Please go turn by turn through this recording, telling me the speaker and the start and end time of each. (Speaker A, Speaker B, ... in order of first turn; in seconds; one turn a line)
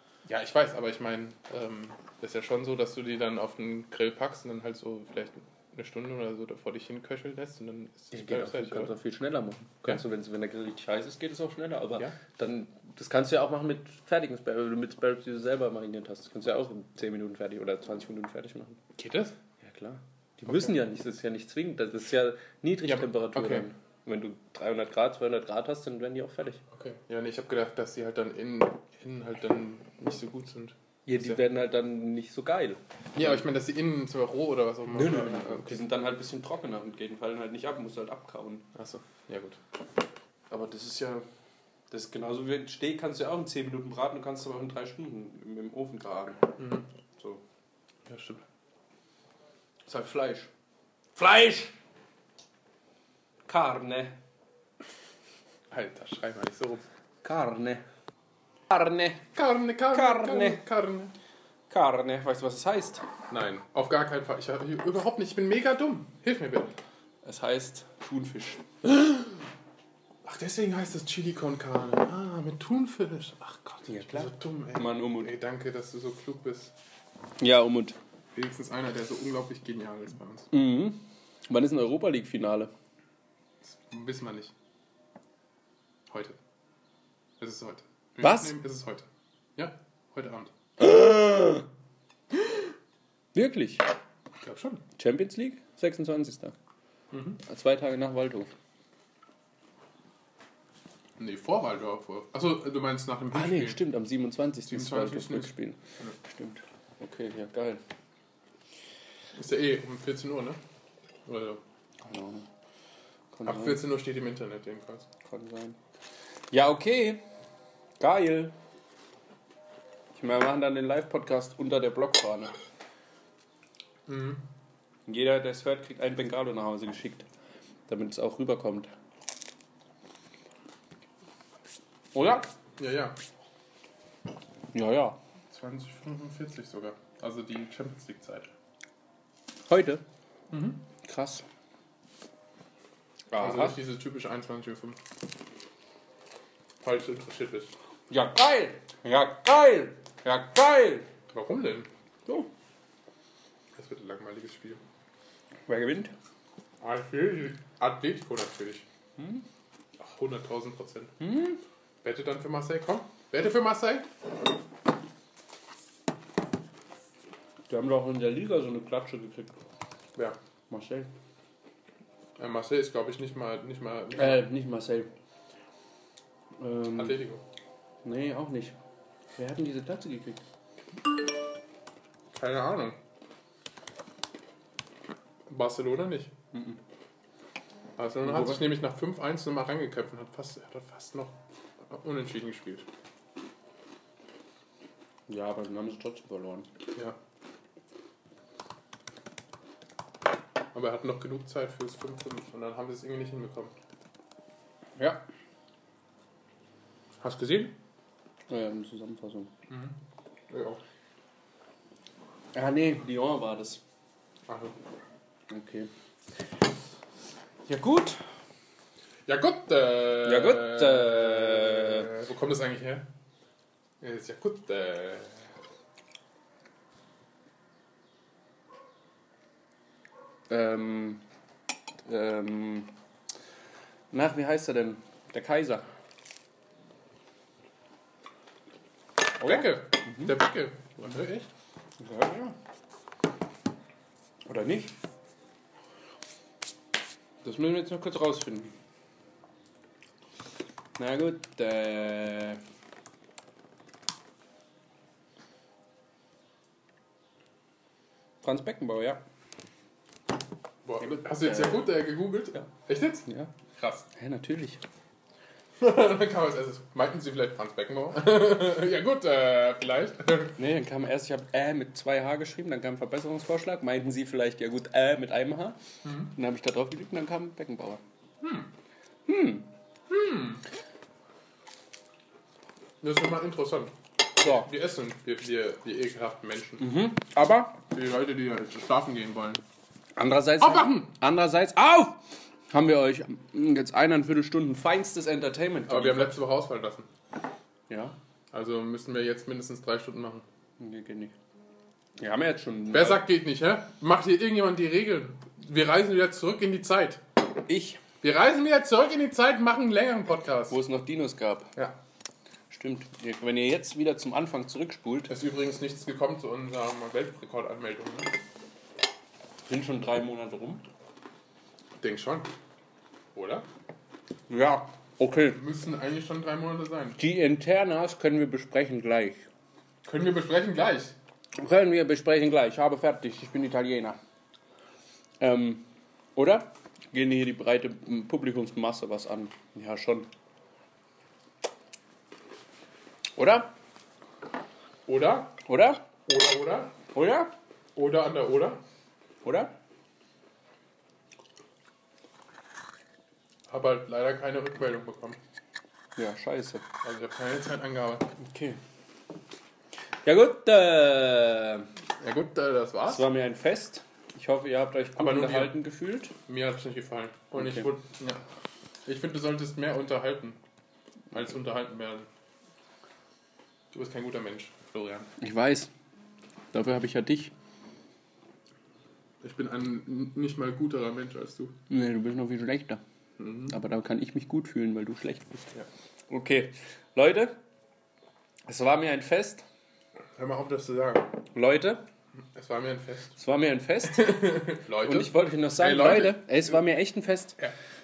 Speaker A: 0.2-8.9
Speaker B: 8.1-18.8
Speaker A: 18.9-19.3
Speaker B: 19.6-26.6
Speaker A: 20.5-20.7
Speaker A: 22.8-23.7
Speaker A: 26.7-31.4
Speaker B: 31.1-33.4
Speaker A: 33.1-35.8
Speaker B: 34.9-38.7
Speaker A: 38.7-39.6
Speaker B: 40.5-41.2
Speaker B: 41.9-46.6
Speaker A: 46.6-46.9
Speaker B: 47.1-47.4
Speaker A: 48.1-48.4
Speaker B: 49.9-50.5
Speaker B: 51.1-51.7
Speaker B: 53.5-54.2
Speaker A: 55.7-56.8
Speaker B: 57.2-57.8
Speaker B: 58.7-59.2
Speaker A: 59.3-61.1
Speaker B: 59.9-60.6
Speaker B: 61.7-63.0
Speaker A: 63.3-66.8
Speaker B: 67.2-68.6
Speaker A: 68.8-69.4
Speaker A: 70.2-76.7
Speaker B: 73.9-75.3
Speaker B: 77.4-78.0
Speaker A: 78.3-80.5
Speaker B: 80.5-82.7
Speaker A: 83.6-84.5
Speaker A: 86.1-86.4
Speaker A: 87.4-90.5
Speaker B: 88.2-88.6
Speaker B: 90.8-91.7
Speaker B: 93.3-93.9
Speaker A: 94.4-94.8
Speaker B: 95.0-96.5
Speaker A: 97.1-97.4
Speaker B: 97.4-98.5
Speaker A: 101.2-103.8
Speaker B: 103.3-107.8
Speaker A: 104.7-106.1
Speaker A: 109.3-110.6
Speaker A: 111.2-111.6
Speaker B: 112.0-112.5
Speaker B: 113.3-113.8
Speaker A: 113.5-115.1
Speaker B: 115.2-115.8
Speaker B: 116.5-117.2
Speaker B: 118.0-118.5
Speaker B: 120.1-122.5
Speaker A: 124.1-124.4
Speaker B: 125.1-127.2
Speaker B: 127.9-128.9
Speaker B: 132.1-132.5
Speaker A: 132.8-133.2
Speaker B: 134.7-135.2
Speaker A: 135.5-138.5
Speaker B: 139.7-140.0
Speaker A: 140.5-140.8
Speaker B: 141.0-141.4
Speaker B: 143.3-143.8
Speaker A: 143.4-145.0
Speaker A: 146.8-147.7
Speaker B: 148.1-151.1
Speaker A: 151.3-151.9
Speaker A: 153.8-154.8
Speaker B: 155.7-156.1
Speaker A: 156.8-158.8
Speaker B: 159.2-159.4
Speaker A: 160.0-161.2
Speaker B: 161.2-161.6
Speaker A: 162.0-164.1
Speaker B: 167.7-169.6
Speaker B: 170.7-171.1
Speaker A: 172.4-174.4
Speaker B: 174.1-175.1
Speaker B: 176.6-177.2
Speaker A: 176.9-177.4
Speaker B: 178.0-178.8
Speaker B: 179.3-180.4
Speaker A: 182.3-183.0
Speaker A: 185.5-186.3
Speaker B: 186.5-186.8
Speaker A: 188.0-192.8
Speaker B: 188.2-188.7
Speaker B: 195.3-196.7
Speaker A: 200.7-203.7
Speaker B: 205.0-205.2
Speaker A: 207.2-207.7
Speaker B: 208.5-209.5
Speaker A: 209.7-210.0
Speaker A: 210.5-210.8
Speaker B: 212.5-213.8
Speaker A: 214.5-214.8
Speaker B: 215.5-215.9
Speaker B: 217.7-218.2
Speaker A: 219.2-223.1
Speaker B: 220.2-222.1
Speaker A: 224.0-225.4
Speaker B: 230.5-231.2
Speaker B: 232.1-232.9
Speaker B: 234.1-235.8
Speaker B: 239.4-240.3
Speaker A: 239.4-241.5
Speaker B: 242.0-242.6
Speaker B: 244.4-244.9
Speaker B: 247.4-248.7
Speaker B: 251.0-252.6
Speaker B: 258.4-259.2
Speaker A: 260.8-264.1
Speaker B: 261.0-261.9
Speaker B: 263.2-263.5
Speaker B: 264.1-264.8
Speaker A: 265.8-270.6
Speaker B: 270.6-278.0
Speaker A: 276.0-276.3
Speaker A: 278.4-278.7
Speaker B: 279.2-279.7
Speaker A: 280.1-280.6
Speaker A: 283.0-286.9
Speaker B: 284.4-284.7
Speaker B: 286.8-287.8
Speaker A: 287.9-289.6
Speaker B: 290.1-296.4
Speaker A: 290.6-291.1
Speaker A: 295.9-297.1
Speaker B: 297.9-298.1
Speaker A: 298.5-300.4
Speaker B: 300.8-301.3
Speaker B: 302.2-303.2
Speaker A: 302.9-307.2
Speaker B: 307.7-308.0
Speaker A: 308.2-310.8
Speaker B: 310.7-311.7
Speaker B: 312.7-315.3
Speaker A: 315.3-318.3
Speaker B: 319.7-320.8
Speaker A: 322.0-322.5
Speaker A: 323.3-323.6
Speaker B: 324.5-325.6
Speaker A: 325.5-327.2
Speaker B: 327.2-329.5
Speaker A: 330.0-331.1
Speaker B: 331.6-334.2
Speaker B: 335.4-340.3
Speaker B: 343.4-343.7
Speaker A: 345.1-345.6
Speaker B: 345.7-346.1
Speaker A: 346.3-346.9
Speaker B: 347.1-347.5
Speaker A: 347.9-348.8
Speaker B: 349.4-349.7
Speaker A: 353.7-355.4
Speaker B: 356.2-356.8
Speaker A: 357.0-358.3
Speaker B: 358.4-358.8
Speaker B: 360.2-361.9
Speaker A: 362.2-363.3
Speaker B: 363.1-366.3
Speaker A: 365.1-365.8
Speaker A: 366.5-368.4
Speaker B: 367.6-367.9
Speaker A: 369.0-370.6
Speaker A: 371.3-372.3
Speaker A: 373.9-375.3
Speaker B: 375.4-375.9
Speaker B: 376.7-377.5
Speaker A: 379.4-381.8
Speaker B: 381.9-383.0
Speaker A: 383.4-383.8
Speaker B: 383.7-385.7
Speaker B: 386.3-387.6
Speaker B: 388.6-389.6
Speaker A: 390.4-391.4
Speaker B: 391.5-392.0
Speaker A: 392.4-393.4
Speaker B: 393.4-394.4
Speaker A: 394.0-396.8
Speaker B: 395.0-397.6